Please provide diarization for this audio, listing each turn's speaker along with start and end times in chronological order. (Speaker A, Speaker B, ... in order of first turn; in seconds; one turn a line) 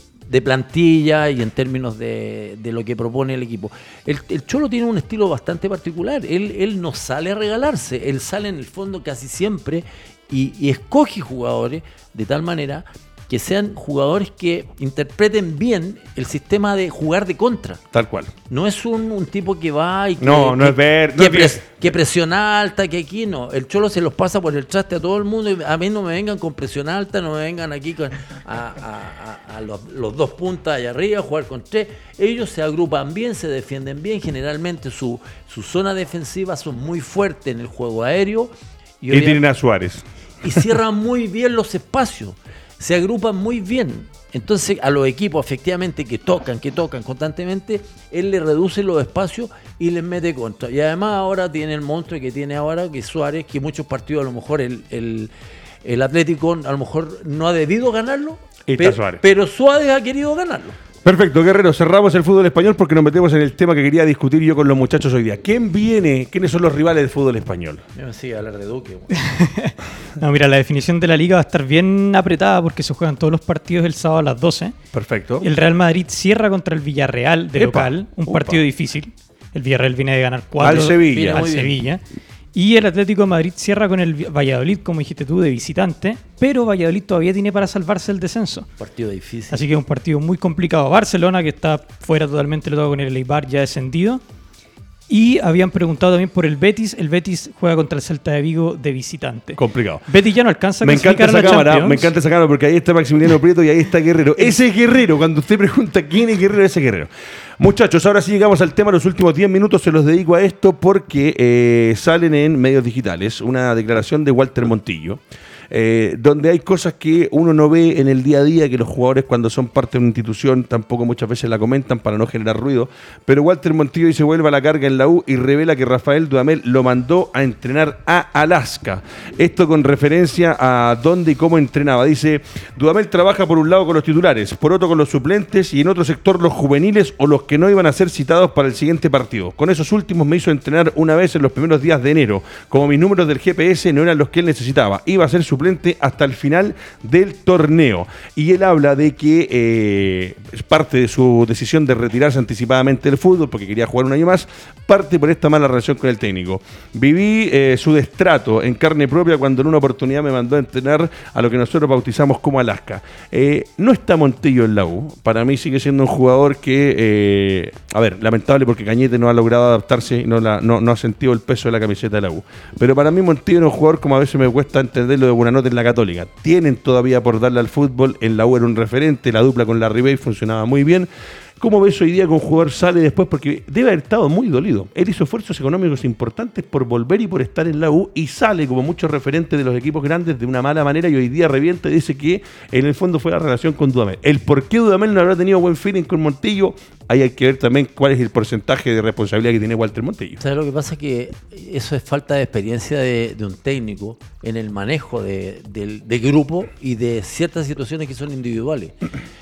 Speaker A: 0.3-17.8
Speaker B: 17.9-18.3
Speaker A: 18.5-39.4
Speaker B: 20.2-21.8
Speaker B: 39.1-40.0
Speaker A: 40.4-55.3
Speaker A: 55.8-60.8
Speaker B: 58.7-59.2
Speaker B: 61.0-67.8
Speaker A: 68.0-69.2
Speaker C: 69.2-74.8
Speaker B: 74.9-75.5
Speaker C: 75.4-82.0
Speaker B: 77.5-78.6
Speaker B: 80.6-81.6
Speaker A: 80.6-81.7
Speaker C: 82.5-88.7
Speaker A: 88.8-89.7
Speaker C: 89.5-94.2
Speaker C: 95.1-102.1
Speaker B: 99.6-100.0
Speaker B: 100.8-115.2
Speaker B: 115.7-181.1
Speaker B: 181.6-200.4
Speaker A: 200.4-209.0